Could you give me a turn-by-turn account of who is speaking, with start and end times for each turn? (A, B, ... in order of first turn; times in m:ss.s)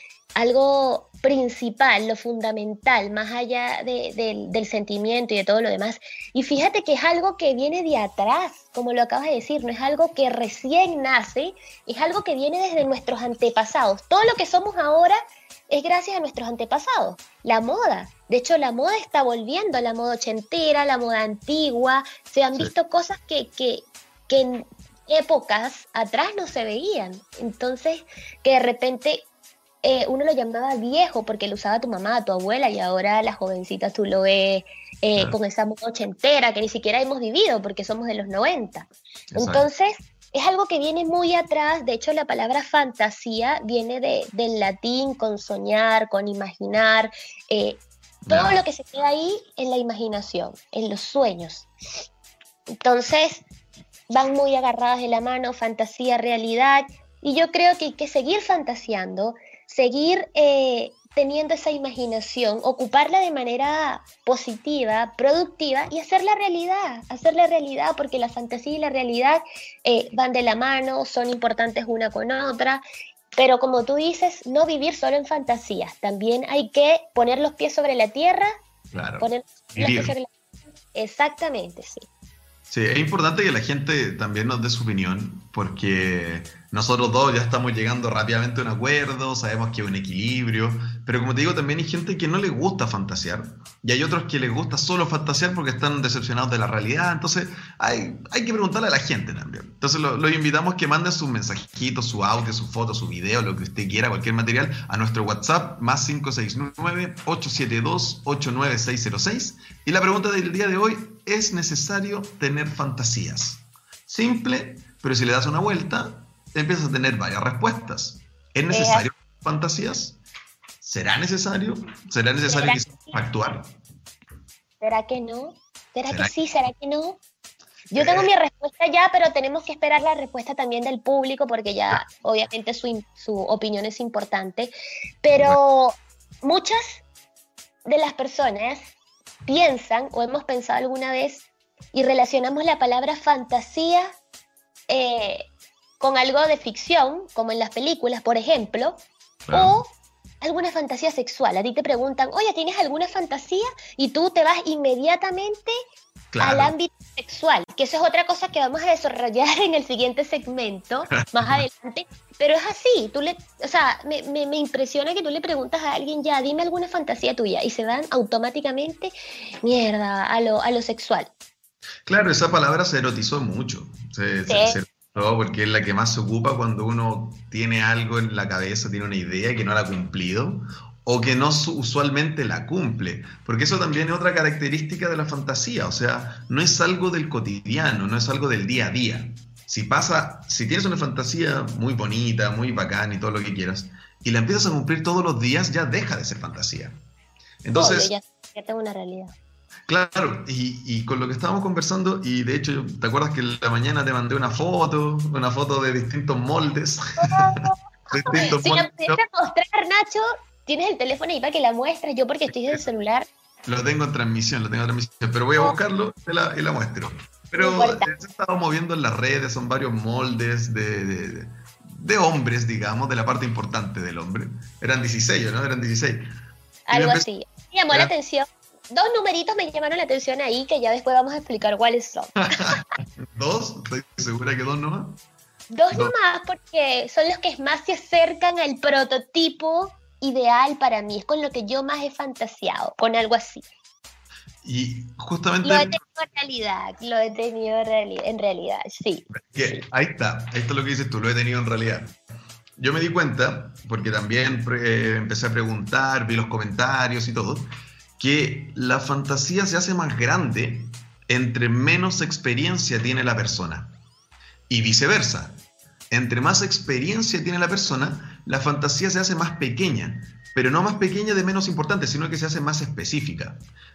0:00.4-0:29.3 A
0:29.8-0:51.7 A
0:39.3-0:39.7 B
0:48.2-0:48.6 B
0:52.8-0:53.4 A
0:54.1-1:12.8 A
1:13.4-1:18.5 A
1:18.9-1:20.1 B
1:19.2-1:20.3 A
1:20.9-1:22.0 A
1:22.7-2:00.2 B
1:58.7-1:59.0 A
2:00.8-2:03.7 B
2:02.5-2:03.2 A
2:04.8-2:07.2 A
2:06.1-2:06.3 B
2:07.9-2:17.0 A
2:07.9-2:08.3 B
2:15.3-2:15.6 B
2:17.8-2:18.9 A
2:19.4-2:24.1 A
2:24.9-2:29.9 A
2:29.5-2:29.8 B
2:30.4-2:35.7 A
2:36.3-2:36.7 B
2:36.4-2:51.3 A
2:41.2-2:41.6 B
2:52.1-3:17.0 B
2:54.5-2:54.8 A
3:17.6-3:18.1 B
3:17.7-3:19.3 A
3:19.9-3:27.5 B
3:27.2-3:33.3 A
3:28.1-3:29.2 B
3:32.5-3:32.8 B
3:33.7-3:46.2 B
3:37.6-3:38.1 A
3:46.9-3:52.8 A
3:46.9-3:47.3 B
3:52.4-3:55.2 B
3:55.7-4:03.6 A
4:04.6-4:06.0 B
4:05.6-4:09.8 A
4:09.3-4:12.1 B
4:12.8-4:23.9 B
4:24.7-4:25.6 B
4:26.1-4:33.6 B